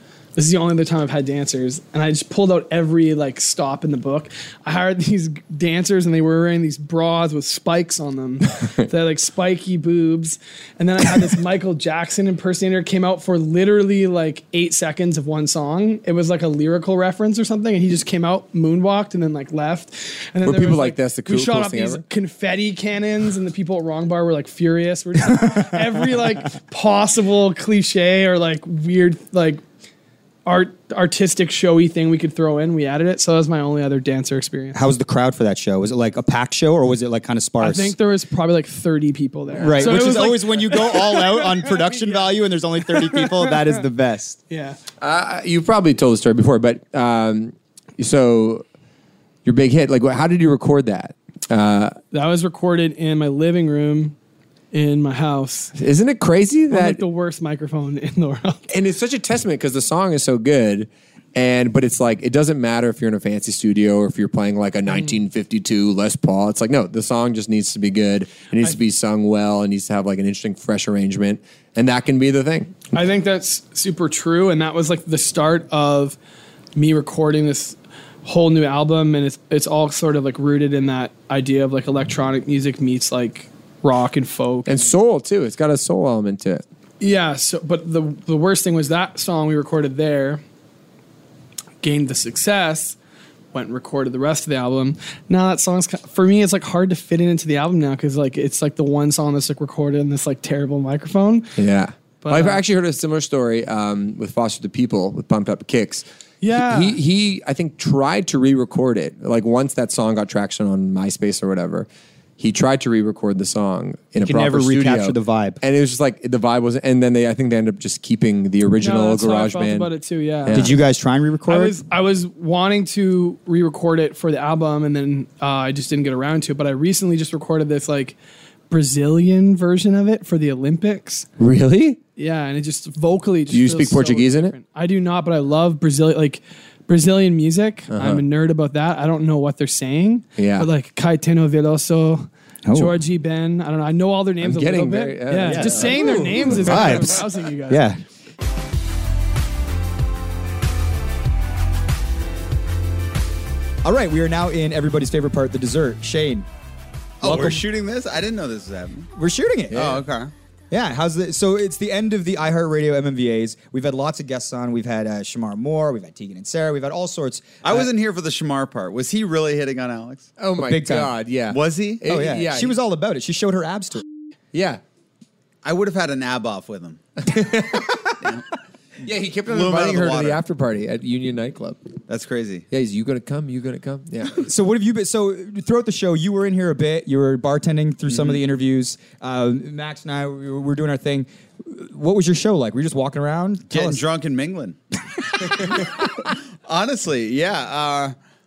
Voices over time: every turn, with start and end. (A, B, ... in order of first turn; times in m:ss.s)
0:00.4-0:29.6 A
0:20.4-0:22.0 B
0:30.4-0:34.8 A
0:34.7-0:38.0 C
0:37.6-0:43.8 A
0:39.6-0:44.4 C
0:44.5-0:44.8 A
0:45.0-0:48.6 B
0:49.4-0:52.0 B
0:52.1-0:54.2 A
0:54.7-0:55.7 A
0:55.8-0:57.0 B
0:56.7-0:58.6 A
0:58.7-1:12.9 B
1:04.9-1:05.2 A
1:12.9-1:16.2 A
1:16.8-1:24.9 A
1:24.6-1:26.6 B
1:27.0-1:30.4 A
1:31.8-1:33.0 A
1:33.5-1:41.5 A
1:41.6-1:51.9 B
1:42.2-1:42.6 A
1:46.4-1:47.0 A
1:52.4-2:00.8 B
1:54.2-1:55.6 C
1:58.8-2:00.8 A
2:00.5-2:01.8 C
2:01.5-2:08.2 A
2:08.7-2:11.3 A
2:11.4-2:12.0 B
2:12.2-2:27.9 A
2:13.5-2:14.6 B
2:17.9-2:18.3 B
2:20.4-2:20.7 B
2:22.7-2:23.0 C
2:24.4-2:27.2 B
2:25.4-2:28.0 C
2:33.8-2:36.5 C
2:37.2-2:39.1 D
2:37.2-2:37.6 C
2:39.2-2:40.0 C
2:39.7-2:40.0 B
2:39.7-2:40.3 D
2:40.7-2:47.9 C
2:47.6-2:50.3 D
2:50.4-2:52.8 B
2:50.6-2:51.2 C
2:51.5-2:52.0 D
2:52.0-2:54.0 C
2:54.5-2:54.8 B
2:55.6-2:57.0 D
2:57.3-2:58.2 B
2:59.0-3:01.9 B
2:59.5-3:00.4 D
3:02.1-3:02.6 D
3:02.7-3:04.4 B
3:04.4-3:14.0 C
3:13.7-3:14.8 D
3:15.5-3:15.9 D
3:16.7-3:18.2 D